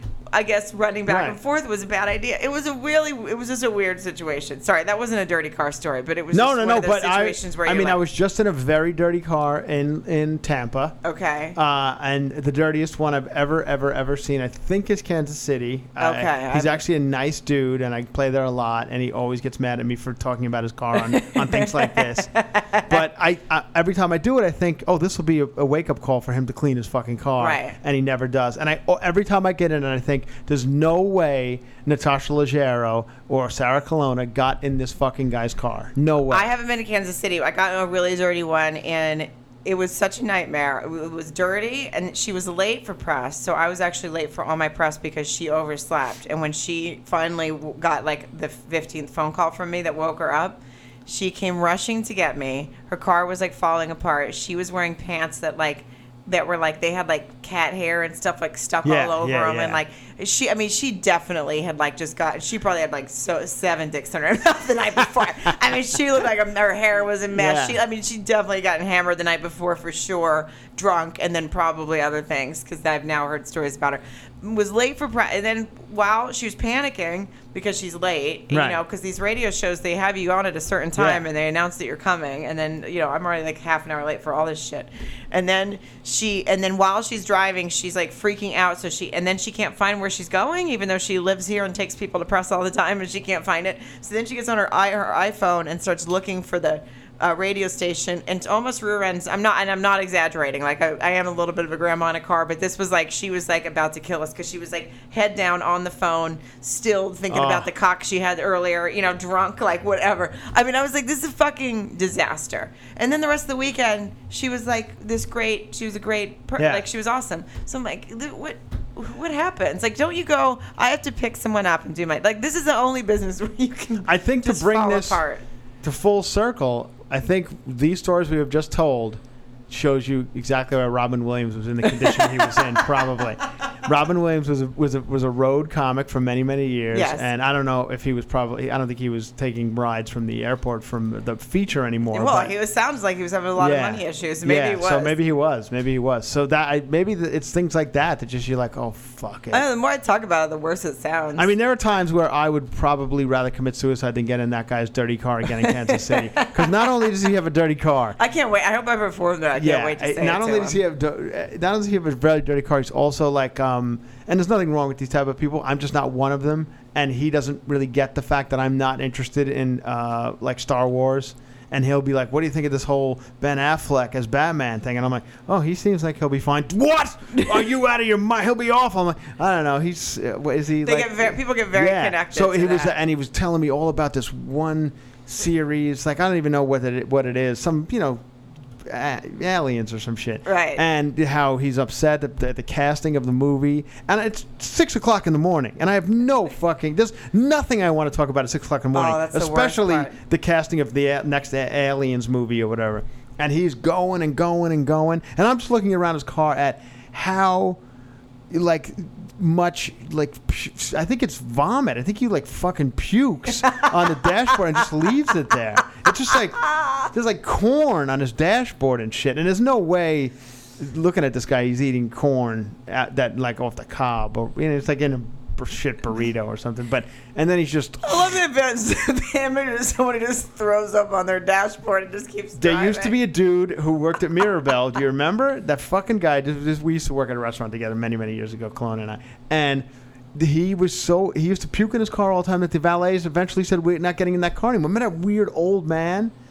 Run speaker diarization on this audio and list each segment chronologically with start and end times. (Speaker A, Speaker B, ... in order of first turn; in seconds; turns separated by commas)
Speaker A: 0.3-8.0, Speaker B: 1.1-1.4, Speaker B: 6.3-11.0, Speaker A: 11.0-11.6, Speaker B: 11.6-22.3, Speaker A: 16.0-16.8, Speaker A: 21.0-23.0, Speaker B: 22.9-36.5, Speaker A: 27.4-27.8, Speaker A: 36.3-125.4, Speaker B: 58.8-59.8, Speaker B: 67.3-67.8, Speaker B: 78.5-78.8, Speaker B: 81.0-81.2, Speaker B: 107.3-107.7, Speaker B: 116.6-116.8, Speaker B: 124.0-125.2, Speaker B: 125.8-142.5, Speaker A: 132.1-132.6, Speaker A: 136.9-137.3, Speaker A: 142.1-145.2, Speaker B: 143.6-149.6, Speaker A: 149.5-151.5, Speaker B: 151.4-158.2, Speaker A: 155.6-157.1, Speaker A: 158.2-160.8, Speaker B: 159.6-188.2, Speaker A: 180.8-183.0, Speaker B: 188.8-207.8, Speaker A: 190.5-190.8, Speaker A: 198.9-200.1, Speaker B: 208.5-228.3, Speaker A: 216.6-217.1, Speaker A: 228.0-233.2, Speaker B: 232.6-246.3